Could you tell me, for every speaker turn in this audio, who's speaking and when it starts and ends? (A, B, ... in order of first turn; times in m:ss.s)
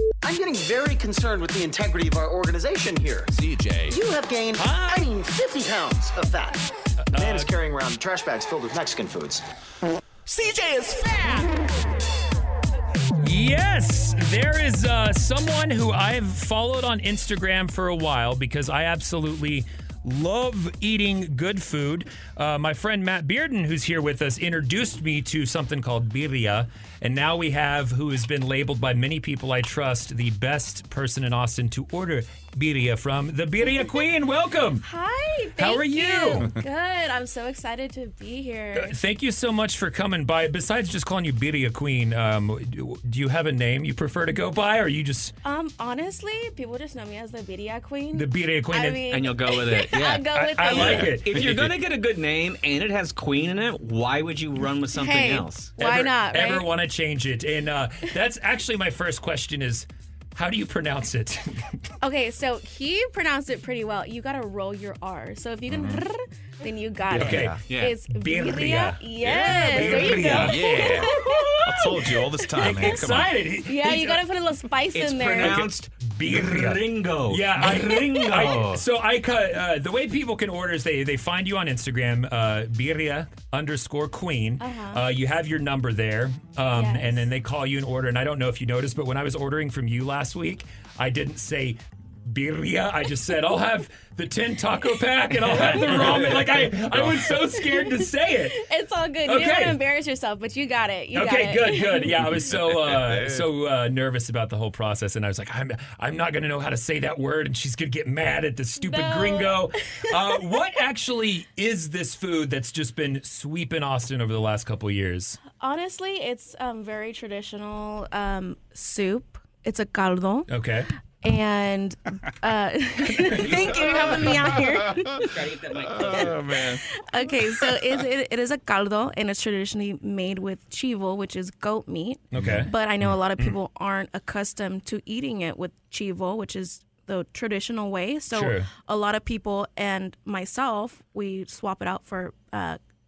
0:00.2-0:03.3 A
0:03.3-0:04.0 B
0:03.9-0:06.6 A
0:04.6-0:05.1 C
0:07.0-0:07.5 C
0:07.1-0:09.4 A
0:13.2-0:34.8 C
0:34.8-0:39.0 D
0:35.6-0:36.5 C
0:38.7-0:45.3 C
0:45.4-0:51.2 D
0:48.1-0:49.0 C
0:49.1-0:55.7 E
0:50.3-0:51.5 C
0:54.9-0:56.7 D
0:55.8-1:01.8 C
1:02.0-1:13.0 D
1:07.1-1:14.2 C
1:07.2-1:07.9 B
1:09.2-1:13.3 B
1:13.6-1:15.6 D
1:14.9-1:18.8 E
1:15.4-1:38.6 C
1:18.3-1:18.7 B
1:24.6-1:25.0 D
1:26.7-1:27.3 D
1:36.0-1:37.0 B
1:37.3-1:42.1 D
1:39.2-1:39.8 C
1:41.1-1:55.4 C
1:42.2-1:43.5 B
1:48.8-1:50.4 D
1:55.6-2:00.5 D
2:00.5-2:00.9 C
2:01.2-2:05.3 D
2:03.3-2:04.6 E
2:03.8-2:05.1 B
2:05.2-2:06.4 E
2:05.8-2:06.8 B
2:06.0-2:22.8 D
2:12.3-2:12.7 C
2:12.3-2:12.7 B
2:18.3-2:18.7 C